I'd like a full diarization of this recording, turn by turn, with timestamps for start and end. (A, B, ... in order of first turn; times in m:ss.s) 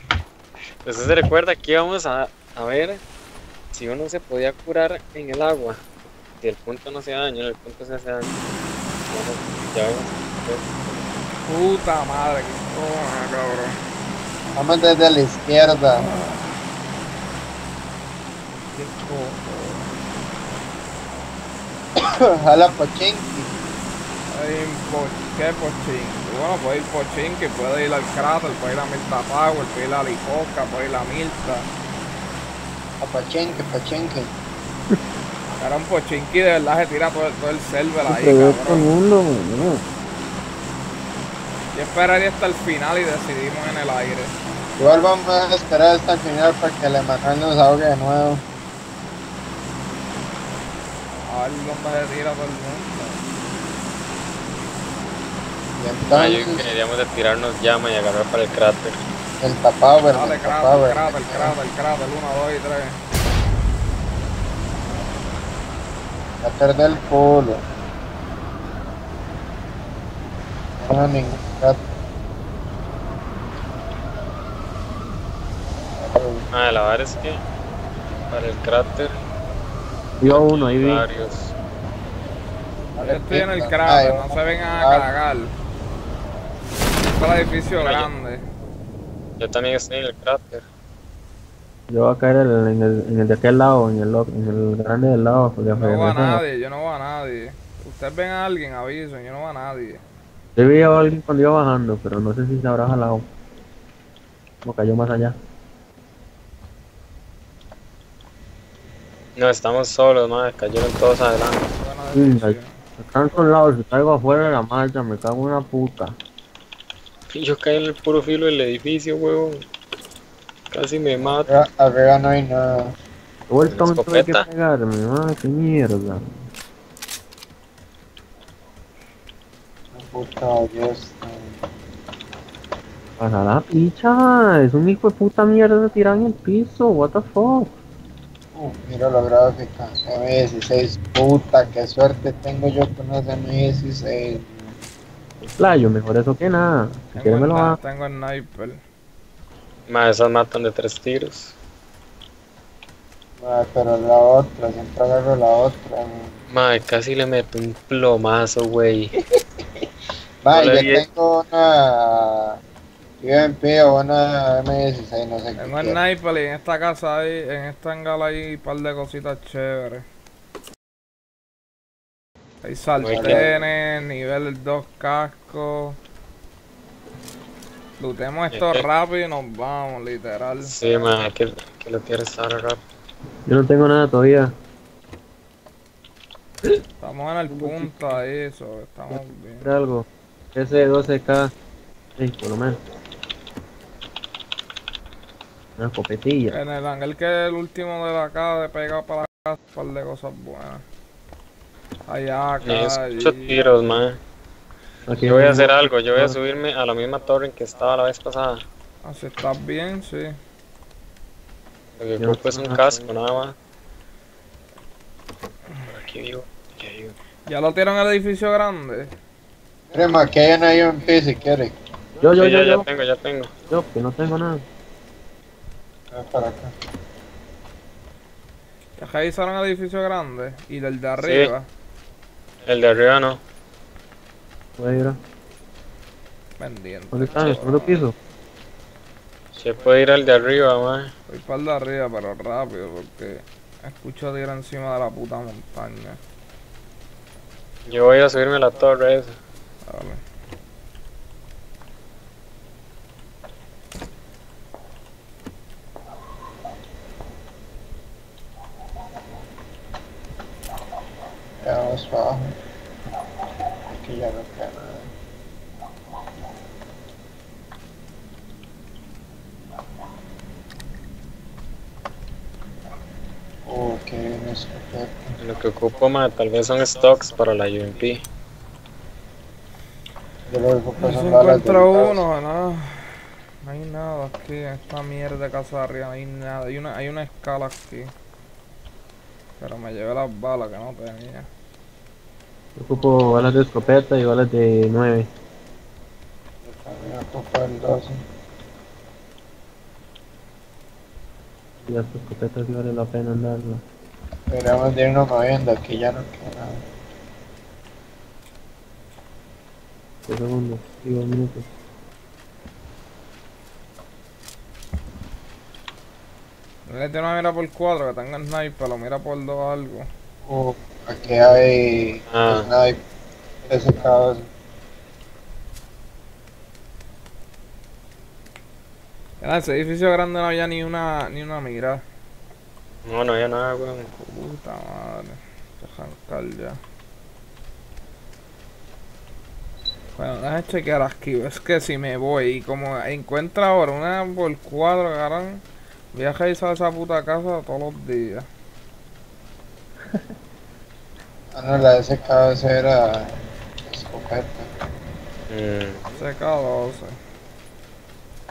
0:00.8-0:03.0 A
0:03.7-0:05.8 A
0:06.4-0:08.4 A
0:09.1-0:11.0 A
0:11.4-0:13.8 B
0:14.6-0:16.1 C
0:16.0-0:16.7 B
0:18.5-0:19.9 B
0:22.0-0:23.5 C
0:24.3-0:31.7 B
0:33.0-0:34.3 C
0:35.6-0:38.9 B
0:38.1-0:39.8 D
0:41.7-0:44.3 B
0:44.8-0:48.4 C
0:51.3-0:53.2 B
0:55.8-0:56.7 C
0:56.1-0:59.0 A
0:59.4-1:01.6 C
1:00.1-1:03.0 B
1:06.4-1:07.6 C
1:10.8-1:11.8 C
1:16.0-1:16.4 C
1:16.5-1:17.4 A
1:18.3-1:19.1 A
1:20.2-1:21.0 D
1:20.3-1:21.5 A
1:23.0-1:25.1 C
1:23.0-1:25.5 B
1:27.1-1:28.4 B
1:27.8-1:28.1 A
1:29.4-1:30.6 A
1:31.9-1:36.4 D
1:35.7-1:40.0 B
1:40.6-1:43.3 D
1:44.6-1:45.4 D
1:49.4-1:51.7 A
1:51.8-1:52.8 B
1:52.2-1:56.2 D
1:57.3-1:59.6 A
2:00.7-2:01.5 A
2:01.5-2:02.9 C
2:03.5-2:06.5 D
2:03.7-2:04.4 A
2:10.0-2:11.6 C
2:13.2-2:17.7 D
2:18.6-2:24.6 C
2:25.6-2:27.8 D
2:27.2-2:28.8 B
2:29.9-2:31.5 A
2:33.4-2:36.3 C
2:36.5-2:39.1 A
2:40.4-2:42.6 C
2:40.5-2:41.0 A
2:43.2-2:46.0 C
2:45.6-2:50.0 B
2:52.6-2:56.0 B
2:53.0-2:53.5 A
2:53.0-2:53.5 C
2:58.0-3:00.8 B
2:58.5-2:58.8 A
3:00.6-3:02.8 A
3:03.5-3:04.5 D
3:07.0-3:09.7 B
3:07.5-3:08.2 D
3:09.1-3:11.5 D
3:12.2-3:12.8 D
3:15.8-3:16.6 D
3:16.5-3:20.8 B
3:22.1-3:23.5 B
3:22.6-3:24.2 A
3:25.1-3:26.4 D
3:25.2-3:28.6 A
3:29.0-3:30.4 B
3:32.0-3:33.5 A
3:32.2-3:33.1 D
3:35.9-3:37.2 A
3:37.5-3:39.1 B
3:39.9-3:41.7 C
3:42.2-3:42.9 D
3:42.4-3:43.5 A
3:43.7-3:44.6 D
3:46.1-3:46.7 C
3:49.0-3:51.7 B
3:51.2-3:51.5 A
3:52.7-3:53.4 A
3:54.8-3:55.2 D
3:56.6-3:58.0 B
3:57.1-3:58.1 D
3:59.6-4:01.1 A
4:01.3-4:06.2 B
4:07.9-4:09.4 A
4:09.9-4:10.2 B
4:21.6-4:22.6 C
4:23.9-4:25.1 C
4:33.7-4:35.3 C
4:35.4-4:38.2 A
4:40.5-4:42.2 C
4:41.0-4:48.1 B
4:49.6-4:51.5 B
4:52.8-4:55.3 D
4:56.7-4:58.2 C
5:01.9-5:03.8 D
5:04.5-5:06.8 C
5:10.3-5:11.7 D
5:16.9-5:20.1 B
5:20.5-5:23.0 C
5:22.3-5:22.7 A
5:23.7-5:24.5 C
5:29.4-5:32.0 B
5:33.1-5:34.1 A
5:34.2-5:36.8 B
5:40.2-5:45.6 B
5:46.1-5:48.5 B
5:51.6-5:53.3 C
5:53.8-5:54.7 C
5:55.5-5:56.0 A
5:56.1-5:57.2 B